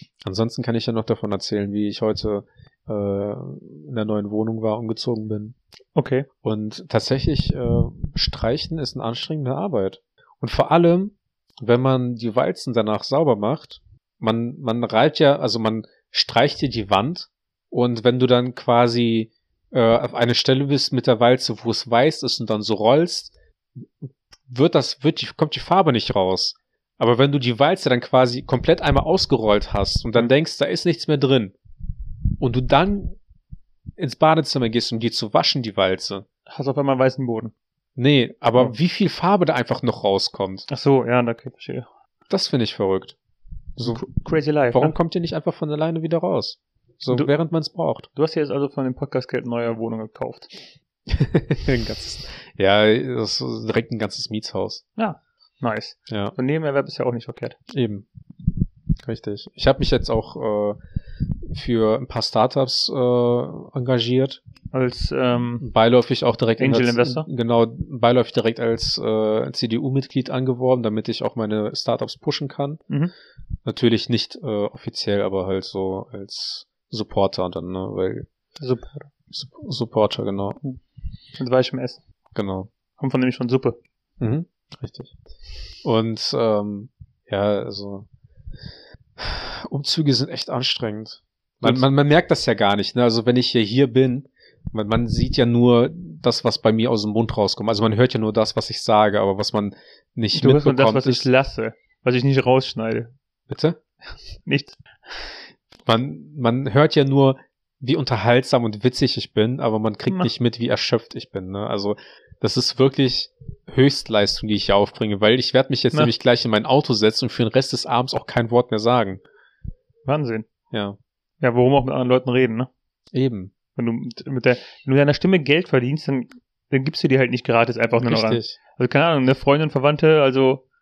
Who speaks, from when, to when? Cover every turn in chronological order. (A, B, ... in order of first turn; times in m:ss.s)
0:00.2-0:05.6 A
0:06.0-0:06.3 B
0:06.4-0:23.8 A
0:24.5-0:31.6 A
0:32.4-0:33.2 A
0:34.0-0:36.2 A
0:36.5-0:37.5 B
0:38.0-0:40.7 A
0:40.7-0:41.9 B
0:42.3-0:43.2 A
0:43.8-0:44.1 A
0:43.8-0:44.9 B
0:44.7-0:48.1 A
0:48.2-0:50.5 B
0:51.1-0:54.8 A
0:55.0-0:57.6 B
0:56.1-0:56.4 A
0:57.7-0:58.1 A
0:59.0-1:00.8 A
1:01.4-1:04.4 A
1:04.7-1:05.6 B
1:05.6-1:12.8 A
1:06.6-1:07.3 B
1:13.7-1:18.3 A
1:18.6-1:19.1 B
1:19.3-1:20.6 A
1:21.4-1:22.0 B
1:22.4-1:22.7 A
1:23.0-1:23.8 B
1:24.2-1:25.1 A
1:25.8-1:28.1 A
1:29.2-1:41.2 A
1:40.3-1:43.1 B
1:43.5-1:43.8 A
1:44.5-1:44.8 B
1:45.9-1:59.2 A
2:00.1-2:00.5 B
2:00.7-2:01.0 A
2:01.4-2:02.7 B
2:03.1-2:03.5 A
2:03.8-2:10.6 B
2:08.0-2:08.6 A